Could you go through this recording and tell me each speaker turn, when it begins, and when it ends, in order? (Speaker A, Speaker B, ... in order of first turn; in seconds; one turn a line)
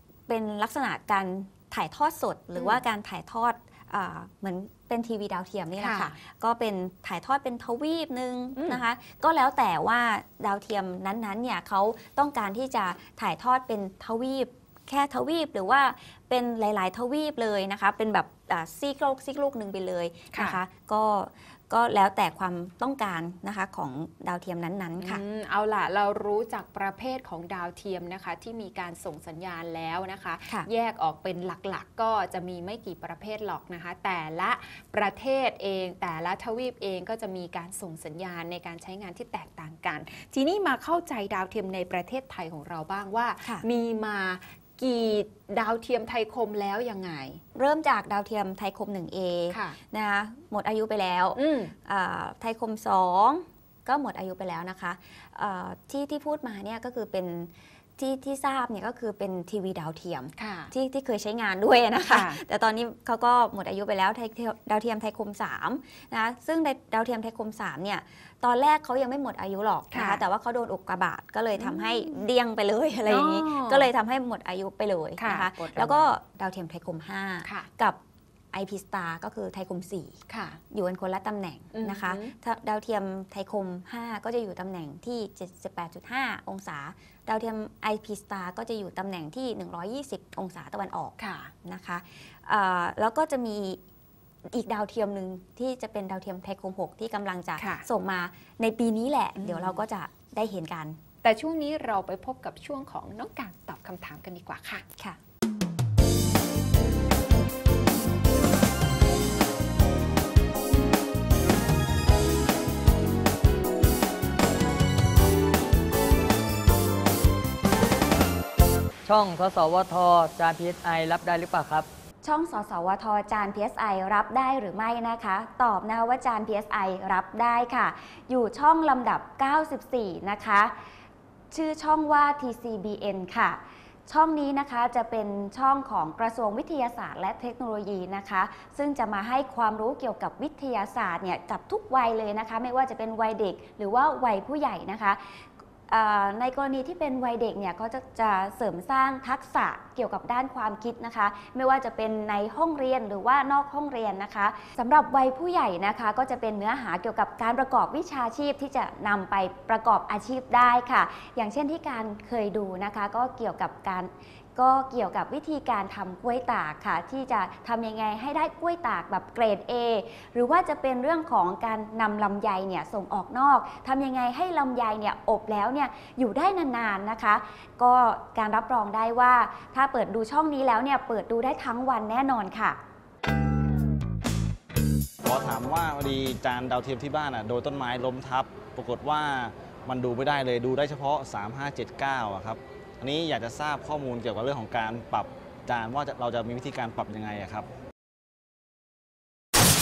Speaker A: 0.3-25.2
Speaker B: 5.8-6.2
Speaker B: 8.6-8.8
Speaker B: 20.3-20.6
Speaker B: 25.0-47.4
Speaker A: 47.5-78.0
Speaker B: 49.5-49.8
Speaker B: 51.4-51.7
Speaker B: 60.4-60.7
Speaker B: 62.1-62.4
Speaker B: 69.9-70.2
Speaker B: 71.6-72.1
Speaker B: 73.1-73.9
Speaker B: 75.2-76.1
Speaker B: 77.4-77.7
Speaker A: 78.5-80.2
Speaker B: 80.3-80.6
Speaker A: 80.7-93.8
Speaker B: 81.8-82.3
Speaker B: 91.2-91.5
Speaker A: 94.5-101.0
Speaker B: 97.6-97.8
Speaker B: 99.4-99.8
Speaker B: 101.2-104.8
Speaker C: 119.0-121.9
Speaker A: 122.2-130.7
Speaker A: 131.5-182.8
Speaker D: 185.3-197.7